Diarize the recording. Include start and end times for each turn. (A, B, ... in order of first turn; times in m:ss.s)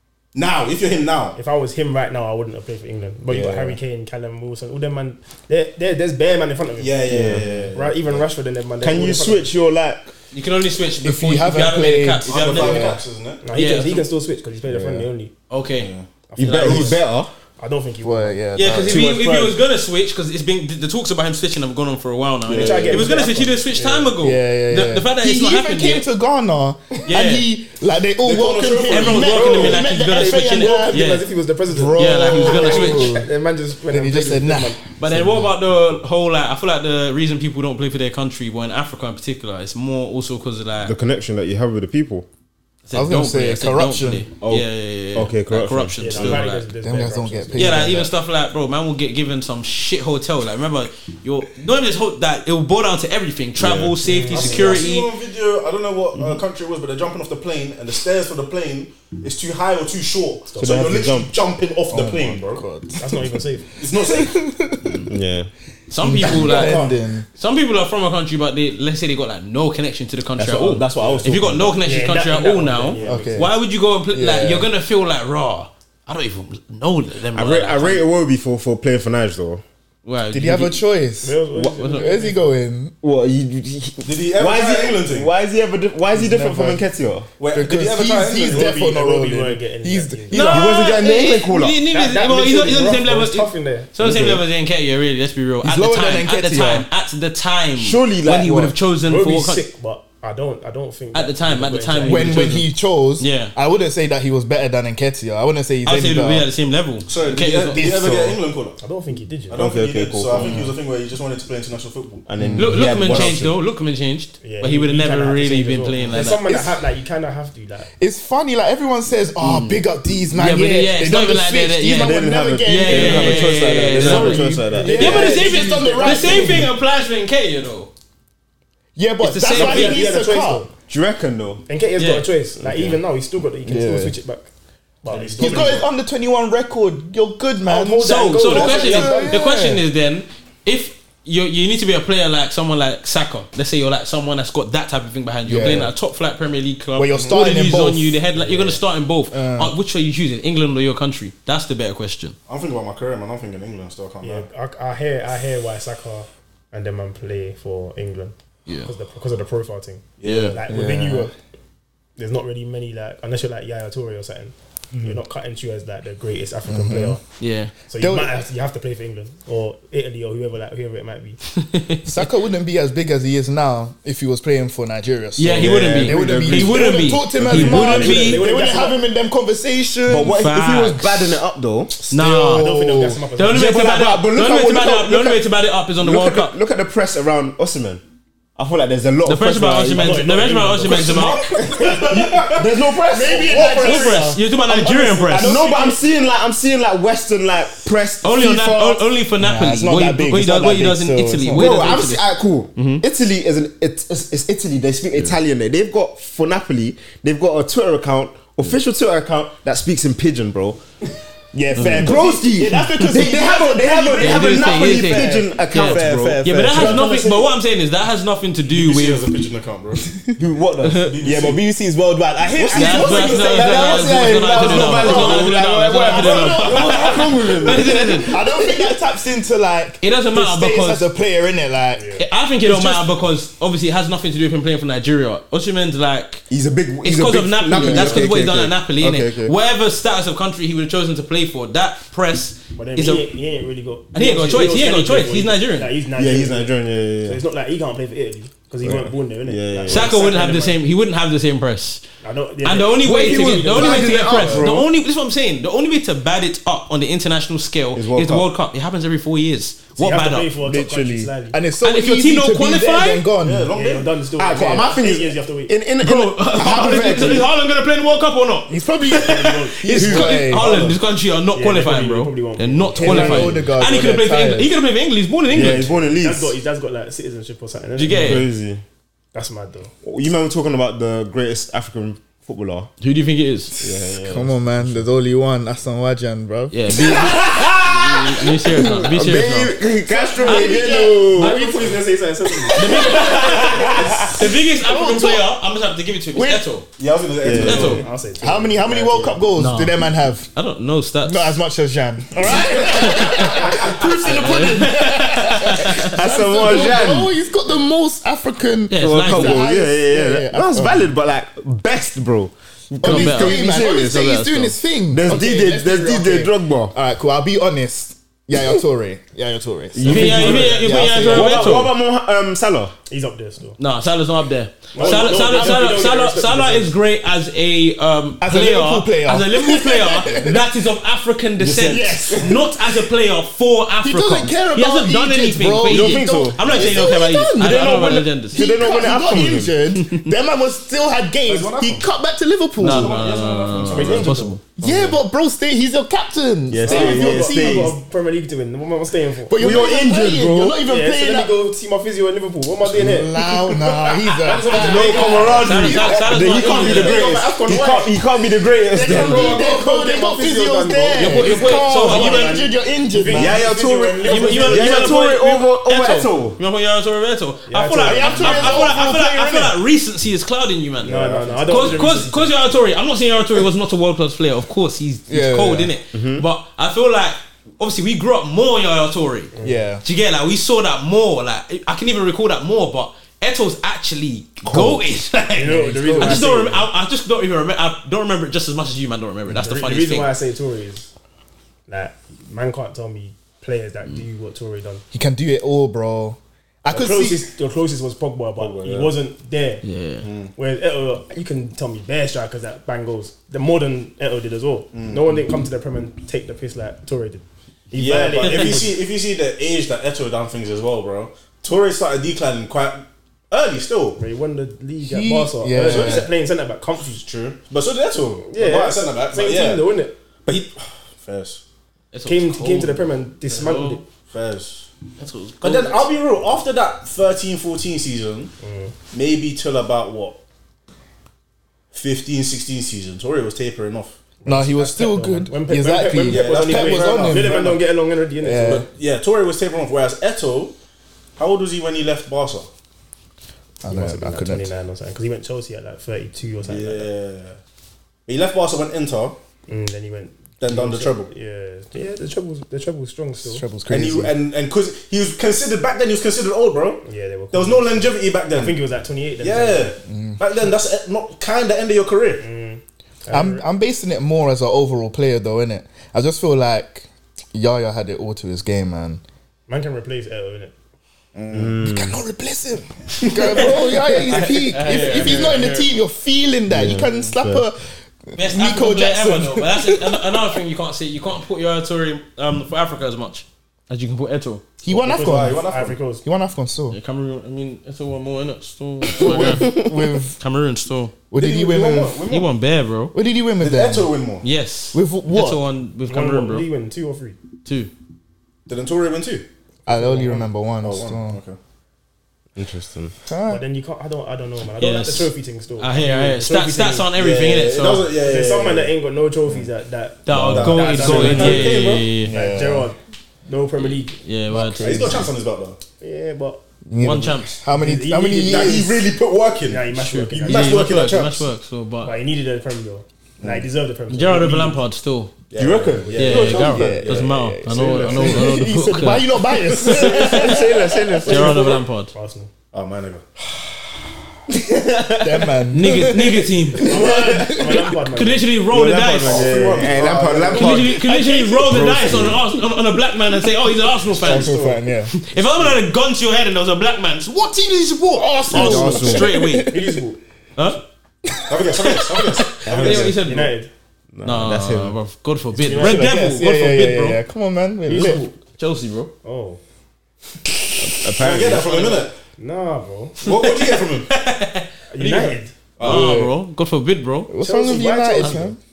0:00.3-0:01.4 A
0:01.4-0:09.5 B
0:03.3-0:03.8 C
0:06.8-0:08.2 A
0:07.1-0:07.8 C
0:08.8-0:10.1 C
0:10.3-0:13.0 D
0:11.0-0:12.9 E
0:12.3-0:13.4 A
0:13.4-0:15.3 B
0:13.5-0:14.1 D
0:14.7-0:15.1 E
0:15.5-0:17.0 D
0:15.8-0:16.1 A
0:16.3-0:17.0 B
0:16.4-0:17.3 C
0:17.6-0:18.5 B
0:18.0-0:19.0 E
0:18.6-0:26.1 D
0:18.9-0:19.5 C
0:22.5-0:23.0 C
0:22.5-0:24.1 B
0:22.6-0:22.9 A
0:24.2-0:31.2 E
0:27.1-0:27.5 D
0:28.2-0:29.9 A
0:28.9-0:31.2 D
0:30.0-0:34.8 B
0:31.7-0:33.3 E
0:32.0-0:33.2 D
0:33.9-0:35.4 E
0:35.0-0:40.9 D
0:40.8-0:42.3 C
0:42.9-0:46.6 D
0:42.9-0:44.2 E
0:44.4-0:46.4 C
0:46.0-0:47.9 B
0:46.8-0:48.1 E
0:47.6-0:55.1 D
0:53.6-0:54.0 C
0:54.0-0:54.8 B
0:54.3-1:02.6 A
1:00.5-1:00.9 B
1:00.6-1:01.3 C
1:01.9-1:03.2 E
1:03.0-1:03.7 B
1:03.8-1:05.1 A
1:03.9-1:05.1 E
1:05.1-1:05.5 C
1:05.9-1:18.1 D
1:06.0-1:07.3 E
1:06.5-1:06.9 B
1:10.4-1:11.8 C
1:11.0-1:11.3 A
1:11.8-1:13.5 B
1:13.0-1:13.6 E
1:14.1-1:14.7 E
1:17.3-1:19.6 C
1:20.0-1:20.8 D
1:20.3-1:21.4 E
1:21.2-1:22.5 B
1:21.8-1:22.2 D
1:21.9-1:22.9 E
1:23.0-1:27.3 C
1:24.0-1:25.3 A
1:26.1-1:26.8 E
1:27.4-1:28.8 A
1:27.5-1:30.8 E
1:28.4-1:30.5 B
1:30.3-1:39.6 D
1:30.4-1:31.8 C
1:31.9-1:33.9 B
1:34.0-1:34.4 C
1:35.6-1:36.9 E
1:37.8-1:38.8 C
1:39.0-1:42.6 B
1:41.1-1:43.5 D
1:42.0-1:46.5 E
1:45.8-1:47.8 D
1:47.1-1:48.8 A
1:47.8-1:48.4 E
1:48.8-1:49.6 B
1:49.5-1:53.4 A
1:49.5-1:50.6 C
1:52.3-1:53.6 C
1:52.6-1:56.4 D
1:54.4-1:57.9 B
1:56.2-1:56.8 E
1:58.0-2:06.7 E
1:59.4-2:07.9 D
2:02.0-2:05.4 C
2:04.0-2:06.7 B
2:09.0-2:10.7 E
2:09.2-2:10.0 D
2:09.5-2:10.7 B
2:10.9-2:11.6 C
2:11.7-2:14.5 B
2:12.0-2:12.3 D
2:12.6-2:13.0 C
2:13.7-2:14.1 C
2:15.0-2:15.8 B
2:15.1-2:15.8 A
2:15.4-2:19.8 E
2:17.7-2:19.4 B
2:18.0-2:32.4 D
2:18.5-2:18.9 A
2:25.5-2:25.9 E
2:27.0-2:28.2 E
2:27.1-2:27.4 A
2:29.3-2:29.7 E
2:32.5-2:34.5 A
2:34.2-2:41.3 B
2:40.2-2:40.6 A
2:40.2-2:40.6 D
2:40.7-2:41.3 E
2:42.2-2:47.2 B
2:46.7-2:47.2 E
2:47.4-2:47.7 D
2:47.9-2:51.4 B
2:48.0-2:48.3 E
2:51.6-2:52.1 D
2:52.0-3:00.4 E
2:55.4-2:58.4 D
2:55.5-2:58.1 C
2:57.7-2:59.0 B
3:00.1-3:02.0 C
3:00.2-3:01.4 D
3:02.0-3:03.2 E
3:02.1-3:02.7 D
3:02.5-3:03.7 B
3:03.4-3:06.5 D
3:03.5-3:05.4 C
3:06.0-3:08.0 C
3:08.6-3:10.2 C
3:09.2-3:11.4 D
3:09.9-3:12.2 B
3:10.9-3:12.7 A
3:11.8-3:14.2 C
3:13.1-3:14.4 E
3:13.7-3:15.6 D
3:14.9-3:19.0 C
3:15.5-3:15.8 B
3:18.2-3:23.0 D
3:19.4-3:22.0 E
3:21.5-3:30.8 C
3:31.5-3:36.2 E
3:31.7-3:37.4 C
3:31.8-3:32.1 D
3:34.1-3:39.3 D
3:36.7-3:37.4 E
3:38.7-3:40.2 A
3:40.4-3:48.9 C
3:40.8-3:41.1 D
3:41.0-3:41.6 A
3:42.6-3:43.3 A
3:42.6-3:43.0 E
3:42.7-3:48.3 D
3:43.6-3:44.0 E
3:44.5-3:47.2 A
3:44.8-3:53.1 E
3:50.0-3:51.1 D
3:52.0-3:52.2 B
3:52.2-3:56.4 D
3:56.5-3:59.5 C
3:57.0-4:03.3 D
4:02.8-4:06.7 B
4:04.1-4:05.9 D
4:06.2-4:07.4 C
4:07.2-4:10.8 B
4:08.8-4:10.2 C
4:09.9-4:12.0 D
4:12.2-4:14.4 B
4:12.6-4:20.5 D
4:13.0-4:14.9 C
4:14.4-4:14.6 A
4:18.0-4:18.5 C
4:20.0-4:21.6 B
4:20.6-4:23.7 E
4:21.8-4:23.3 D
4:23.4-4:24.2 A
4:23.7-4:25.7 B
4:24.4-4:27.5 C
4:26.0-4:35.9 D
4:28.7-4:30.7 E
4:29.1-4:30.9 B
4:29.9-4:30.4 C
4:30.6-4:30.9 A
4:31.5-4:33.7 B
4:33.0-4:34.7 E
4:35.5-4:36.6 C
4:36.1-4:38.5 B
4:38.0-4:38.5 D
4:38.1-4:38.8 C
4:39.3-4:39.9 B
4:40.0-4:42.9 C
4:43.0-4:43.7 D
4:43.8-4:45.0 C
4:44.1-4:46.8 E
4:46.7-4:49.8 D
4:46.9-4:51.6 C
4:50.1-4:54.0 B
4:50.4-4:52.0 D
4:52.7-4:56.9 D
4:52.8-4:54.0 E
4:53.1-4:54.3 C
4:54.8-4:55.5 E
4:56.3-4:56.6 E
4:57.0-4:58.0 A
4:57.4-4:58.0 C
4:57.5-4:59.4 B
4:57.6-4:58.0 D
4:58.4-5:00.5 E
4:59.6-5:01.6 D
5:01.2-5:11.1 E
5:02.7-5:06.1 D
5:03.5-5:04.0 B
5:05.9-5:07.3 C
5:08.9-5:09.7 D
5:09.0-5:14.5 C
5:13.0-5:21.7 E
5:13.0-5:14.7 D
5:15.1-5:16.9 C
5:20.0-5:22.9 C
5:20.0-5:21.9 D
5:20.1-5:21.8 B
5:23.1-5:23.8 B
5:23.8-5:38.7 D
5:24.9-5:26.9 B
5:25.0-5:25.8 E
5:28.4-5:30.7 E
5:31.6-5:32.1 C
5:31.7-5:32.9 E
5:34.0-5:38.0 E
5:35.9-5:39.7 C
5:38.5-5:43.2 E
5:40.0-5:40.3 D
5:41.5-5:42.1 A
5:42.8-5:44.6 D
5:42.8-5:44.4 A
5:43.8-5:44.6 B
5:44.8-5:48.0 E
5:46.7-5:48.0 C
5:46.8-5:49.6 B
5:49.5-5:51.5 E
5:49.6-5:50.8 C
5:50.8-5:58.2 B
5:52.9-5:56.7 E
5:54.7-5:59.6 C
5:54.8-5:55.7 A
5:55.6-5:57.3 D
5:58.9-6:03.7 E
5:59.0-6:05.2 B
6:01.2-6:02.7 D
6:03.3-6:06.6 C
6:04.2-6:19.5 D
6:07.7-6:09.0 B
6:08.0-6:09.8 E
6:11.0-6:12.1 A
6:11.0-6:12.6 B
6:15.3-6:15.9 E
6:16.1-6:16.4 C
6:19.5-6:19.8 B
6:19.6-6:20.0 E
6:20.0-6:30.3 D
6:24.6-6:25.0 C
6:25.6-6:26.9 B
6:25.6-6:26.5 E
6:29.5-6:31.1 B
6:31.9-6:35.0 B
6:35.1-6:37.5 E
6:36.9-6:39.8 B
6:38.6-6:39.2 A
6:39.8-6:40.3 D
6:40.2-6:40.5 A
6:40.6-6:49.0 B
6:44.9-6:45.4 A
6:47.9-6:54.2 A
6:48.4-6:48.8 D
6:54.2-6:57.2 B
6:55.0-6:56.3 E
6:55.8-6:56.3 A
6:57.1-6:59.9 A
6:58.4-7:00.2 B
7:00.5-7:01.6 A
7:02.1-7:04.0 D
7:02.2-7:04.0 B
7:04.3-7:04.9 A
7:05.2-7:06.1 D
7:05.6-7:08.5 A
7:08.6-7:08.9 B
7:09.1-7:10.4 A
7:11.9-7:14.2 A
7:14.4-7:18.9 B
7:14.5-7:17.8 E
7:16.3-7:17.8 A
7:18.4-7:18.9 E
7:18.6-7:20.8 A
7:21.4-7:22.7 A
7:23.8-7:24.7 E
7:23.8-7:27.1 B
7:26.6-7:27.6 A
7:28.3-7:29.4 A
7:29.7-7:33.6 B
7:30.6-7:31.3 A
7:33.4-7:34.4 E
7:33.9-7:38.8 A
7:37.0-7:40.0 B
7:39.4-7:42.4 A
7:40.1-7:40.4 E
7:42.4-7:43.7 B
7:43.3-7:49.2 E
7:49.7-7:50.8 B
7:51.4-7:51.8 A
7:51.5-7:52.2 C
7:51.8-8:00.2 E
7:53.4-7:55.9 D
7:56.7-7:57.6 C
7:58.4-8:04.6 D
8:04.8-8:05.6 E
8:04.9-8:06.2 B
8:05.1-8:06.0 A
8:06.2-8:07.0 E
8:06.9-8:11.2 D
8:09.2-8:10.4 E
8:11.3-8:12.2 E
8:11.4-8:12.4 A
8:12.3-8:13.1 D
8:13.1-8:14.1 E
8:13.6-8:14.5 A
8:14.4-8:16.7 D
8:14.9-8:15.6 E
8:16.1-8:17.4 B
8:17.6-8:17.9 D
8:18.7-8:19.5 A
8:19.9-8:20.5 B
8:19.9-8:21.4 E
8:20.8-8:21.6 A
8:22.6-8:23.2 C
8:23.3-8:23.6 E
8:23.5-8:27.1 B
8:24.8-8:28.1 D
8:27.2-8:28.9 A
8:28.2-8:34.2 B
8:30.3-8:32.3 D
8:30.4-8:32.1 A
8:30.4-8:30.6 E
8:32.2-8:32.9 E
8:33.9-8:35.2 D
8:34.5-8:35.2 E
8:34.8-8:35.8 A
8:36.0-8:36.6 B
8:36.9-8:38.9 E
8:37.0-8:37.6 D
8:37.7-8:38.9 B
8:38.4-8:41.5 A
8:39.6-8:41.0 B
8:39.9-8:42.2 D
8:42.0-8:44.8 B
8:43.4-8:43.7 A
8:44.1-8:45.3 D
8:45.5-8:48.4 A
8:45.6-8:46.7 C
8:46.0-8:46.6 B
8:46.2-8:50.6 D
8:46.6-8:50.8 E
8:49.9-8:51.8 C
8:51.2-8:52.5 B
8:51.3-8:52.1 D
8:52.7-8:53.2 A
8:54.5-8:55.6 C
8:55.2-8:58.0 E
8:55.7-8:57.0 D
8:56.8-8:58.5 B
8:58.1-8:59.5 D
8:58.7-9:01.1 A
8:59.2-9:02.4 C
8:59.6-8:59.9 B
9:00.5-9:04.5 D
9:01.9-9:02.2 A
9:04.2-9:04.8 B
9:04.2-9:05.1 E
9:05.1-9:09.8 D
9:05.4-9:05.8 B
9:08.2-9:10.0 E
9:08.5-9:09.4 C
9:09.6-9:10.2 B
9:10.6-9:10.8 D
9:11.3-9:11.8 E
9:11.5-9:13.1 A
9:11.8-9:13.5 D
9:12.6-9:13.2 C
9:12.9-9:13.7 B
9:14.2-9:15.0 C
9:14.2-9:17.2 D
9:15.6-9:16.3 B
9:15.7-9:18.3 E
9:17.9-9:18.3 B
9:18.0-9:19.1 D
9:19.2-9:19.6 B
9:20.8-9:21.9 C
9:21.2-9:22.2 A
9:22.4-9:23.2 B
9:23.2-9:24.1 A
9:23.3-9:27.3 D
9:24.9-9:25.5 B
9:25.8-9:26.1 A
9:25.8-9:26.3 E
9:27.3-9:28.6 E
9:27.4-9:28.5 B